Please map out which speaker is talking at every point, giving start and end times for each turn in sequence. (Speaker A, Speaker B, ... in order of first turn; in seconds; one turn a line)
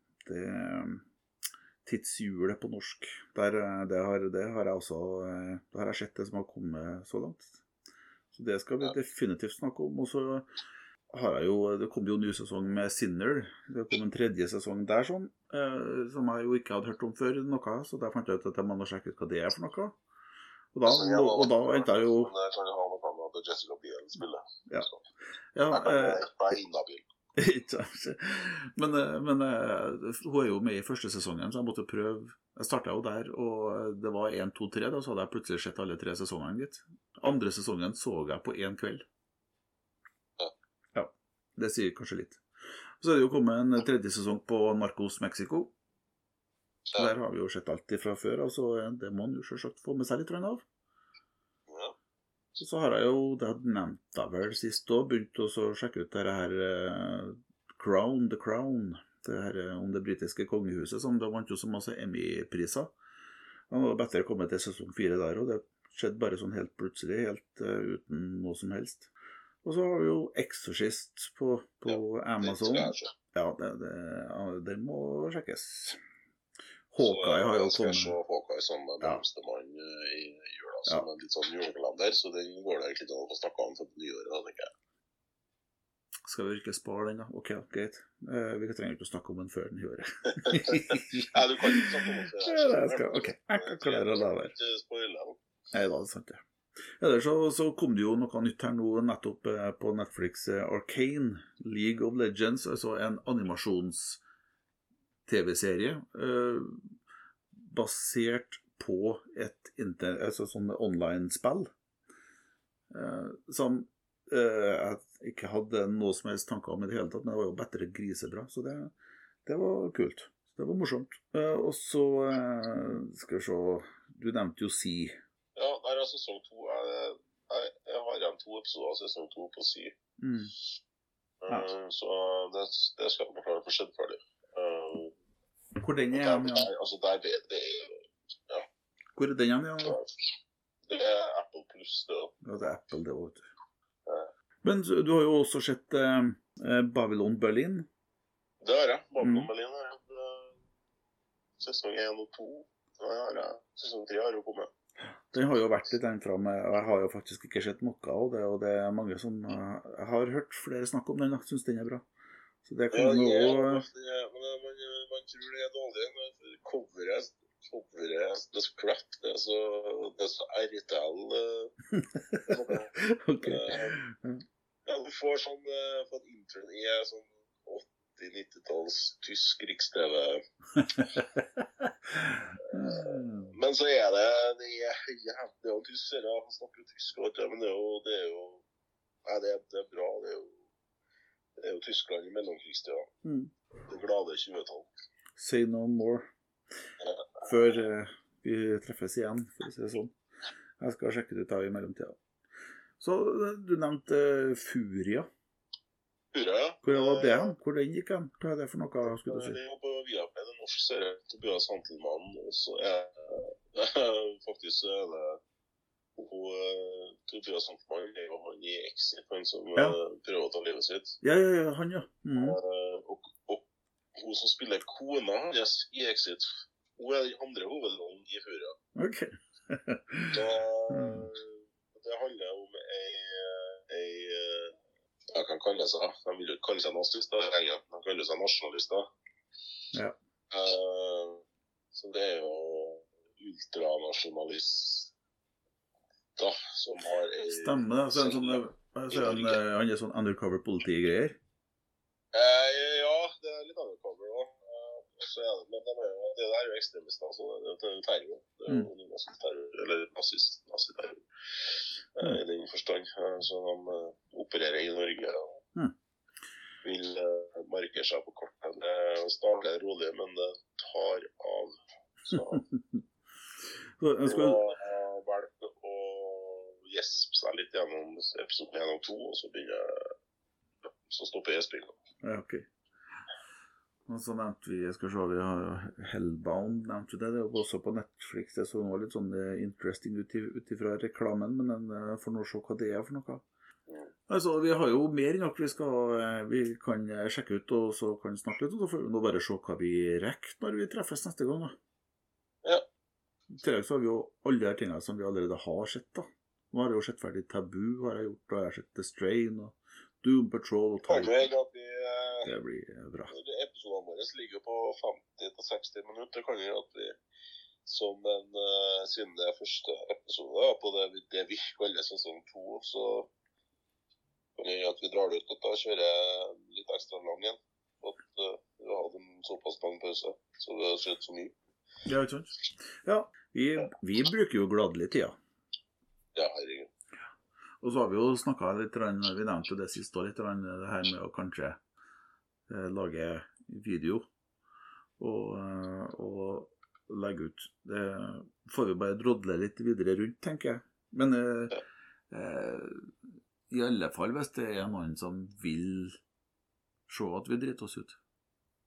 Speaker A: 0.2-1.1
Speaker A: 1.8-7.5
Speaker A: 8.3-10.5
Speaker A: 11.1-20.0
Speaker A: 20.7-22.3
Speaker B: 20.9-25.0
Speaker A: 25.6-26.2
Speaker B: 25.7-27.1
Speaker A: 27.4-39.0
Speaker A: 41.0-42.4
Speaker A: 43.0-45.7
Speaker A: 47.0-50.6
Speaker B: 51.7-52.0
Speaker A: 52.6-62.9
Speaker A: 63.7-69.1
Speaker A: 69.6-76.0
Speaker B: 71.9-73.1
Speaker A: 76.9-78.2
Speaker B: 77.0-84.7
Speaker A: 86.3-94.5
Speaker B: 90.4-95.4
Speaker A: 95.7-96.4
Speaker A: 97.0-104.2
Speaker A: 105.3-107.0
Speaker A: 107.5-111.7
Speaker A: 112.9-118.9
Speaker A: 119.5-125.1
Speaker B: 125.5-129.9
Speaker A: 130.2-130.5
Speaker B: 131.4-135.1
Speaker A: 135.8-136.7
Speaker B: 136.1-138.7
Speaker A: 139.2-140.0
Speaker B: 139.8-140.1
Speaker B: 140.9-142.3
Speaker A: 142.4-143.4
Speaker B: 144.1-144.3
Speaker A: 144.6-147.9
Speaker B: 148.6-150.6
Speaker A: 149.2-149.5
Speaker B: 151.6-154.7
Speaker A: 155.3-162.1
Speaker A: 162.6-163.9
Speaker B: 162.9-171.7
Speaker A: 171.9-174.4
Speaker B: 172.5-174.0
Speaker B: 174.9-180.4
Speaker A: 180.8-183.6
Speaker B: 182.7-188.6
Speaker B: 189.3-190.6
Speaker B: 191.6-193.1
Speaker A: 193.2-193.5
Speaker B: 193.9-194.9
Speaker A: 195.4-196.3
Speaker B: 197.0-197.5
Speaker A: 197.4-200.1
Speaker A: 200.8-202.2
Speaker A: 203.0-205.3
Speaker B: 206.3-207.6
Speaker A: 206.8-209.6
Speaker B: 209.1-215.4
Speaker B: 216.2-221.2
Speaker A: 221.2-222.6
Speaker B: 222.4-223.6
Speaker B: 224.2-228.8
Speaker A: 229.0-231.3
Speaker B: 230.3-234.8
Speaker B: 235.3-239.1
Speaker B: 240.5-245.1
Speaker B: 246.4-249.6
Speaker A: 247.5-251.4
Speaker B: 252.3-261.2
Speaker B: 262.2-265.6
Speaker B: 266.8-272.6
Speaker A: 272.3-273.0
Speaker A: 274.0-274.7
Speaker B: 274.3-280.1
Speaker B: 280.9-282.0
Speaker A: 282.2-282.7
Speaker A: 284.1-293.4
Speaker B: 293.9-294.1
Speaker A: 294.3-301.8
Speaker A: 303.6-311.4
Speaker B: 311.1-312.5
Speaker A: 312.4-313.3
Speaker B: 313.3-317.2
Speaker B: 317.9-323.3
Speaker B: 324.6-331.6
Speaker A: 332.1-335.4
Speaker B: 336.4-336.9
Speaker A: 337.8-341.8
Speaker A: 342.7-344.3
Speaker A: 345.2-356.2
Speaker A: 357.1-358.2